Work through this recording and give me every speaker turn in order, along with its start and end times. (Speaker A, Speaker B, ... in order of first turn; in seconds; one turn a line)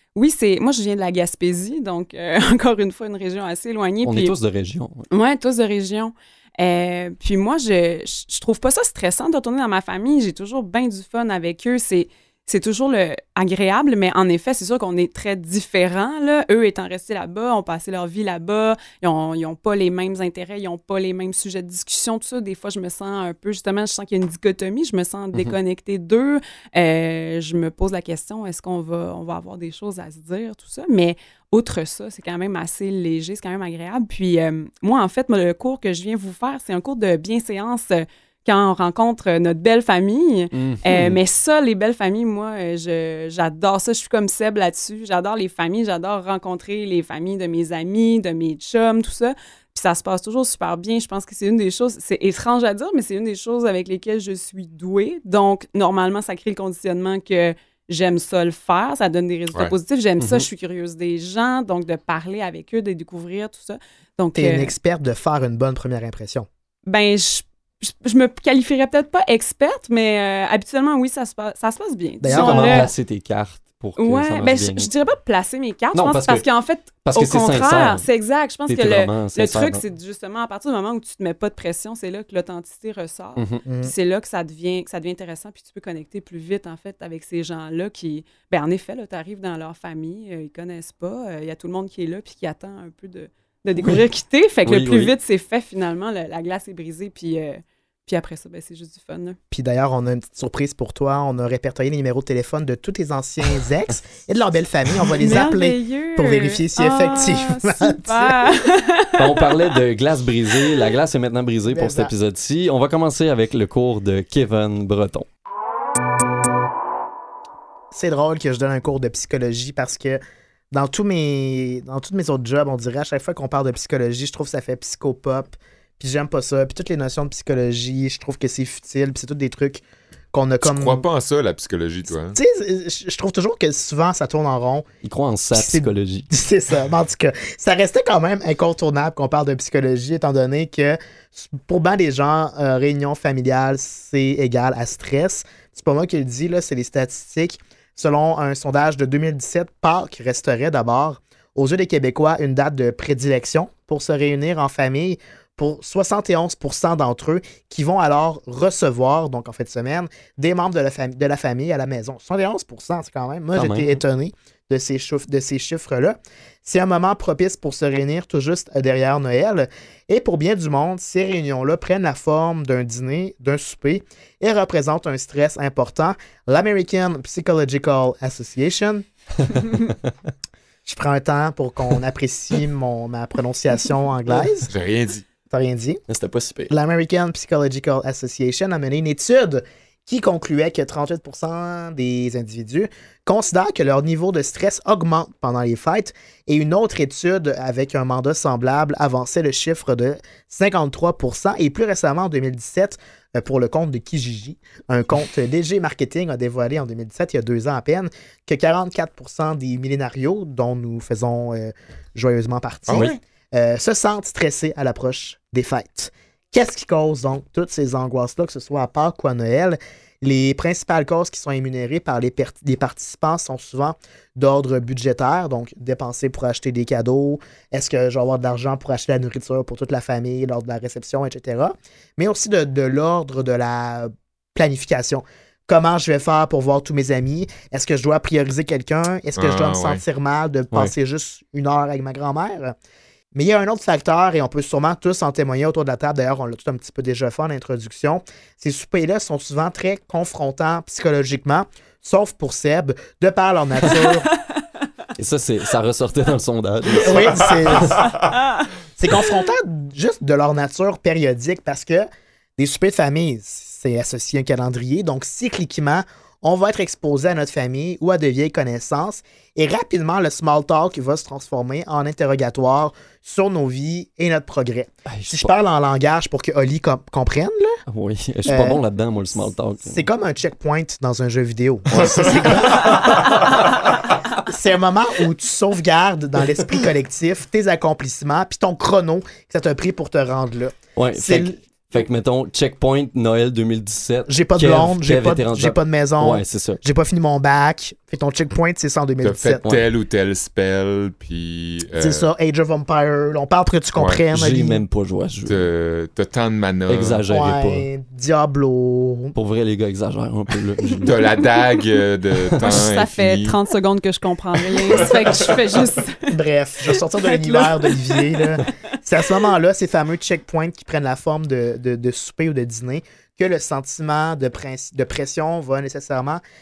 Speaker A: 0.1-4.3
Speaker B: 4.0-5.1
Speaker A: 5.1-64.7
Speaker B: 40.5-41.2
Speaker B: 60.2-60.4
Speaker C: 64.3-66.5
Speaker A: 66.9-72.9
Speaker C: 72.2-72.9
Speaker B: 72.3-74.9
Speaker A: 74.0-99.4
Speaker B: 75.9-76.4
Speaker B: 77.0-78.0
Speaker B: 78.7-79.8
Speaker B: 83.4-83.6
Speaker C: 83.7-83.9
Speaker B: 94.7-95.1
Speaker C: 99.5-108.4
Speaker A: 105.2-109.7
Speaker B: 109.2-115.3
Speaker C: 111.7-112.1
Speaker C: 117.9-120.2
Speaker C: 120.7-131.0
Speaker D: 130.6-132.4
Speaker C: 132.3-134.8
Speaker B: 135.0-136.3
Speaker C: 135.5-179.0
Speaker B: 163.5-164.0
Speaker C: 180.8-184.7
Speaker D: 184.7-185.2
Speaker C: 185.5-186.0
Speaker B: 186.1-186.7
Speaker C: 186.7-242.7
Speaker D: 212.9-213.2
Speaker D: 239.3-240.0
Speaker C: 243.3-254.3
Speaker B: 255.2-258.0
Speaker C: 257.0-258.1
Speaker D: 257.5-258.3
Speaker A: 258.3-258.6
Speaker C: 259.0-262.1
Speaker C: 262.6-277.8
Speaker B: 275.1-275.5
Speaker B: 277.9-280.0
Speaker C: 278.4-278.8
Speaker C: 279.8-283.2
Speaker B: 281.9-283.4
Speaker C: 284.4-291.6
Speaker B: 290.9-296.8
Speaker C: 294.3-299.6
Speaker D: 299.2-302.3
Speaker C: 302.0-304.8
Speaker B: 304.3-305.7
Speaker D: 305.4-307.2
Speaker B: 306.9-307.9
Speaker C: 307.3-309.3
Speaker B: 309.3-311.1
Speaker D: 311.0-313.6
Speaker A: 312.6-318.6
Speaker D: 314.9-315.8
Speaker C: 316.3-326.4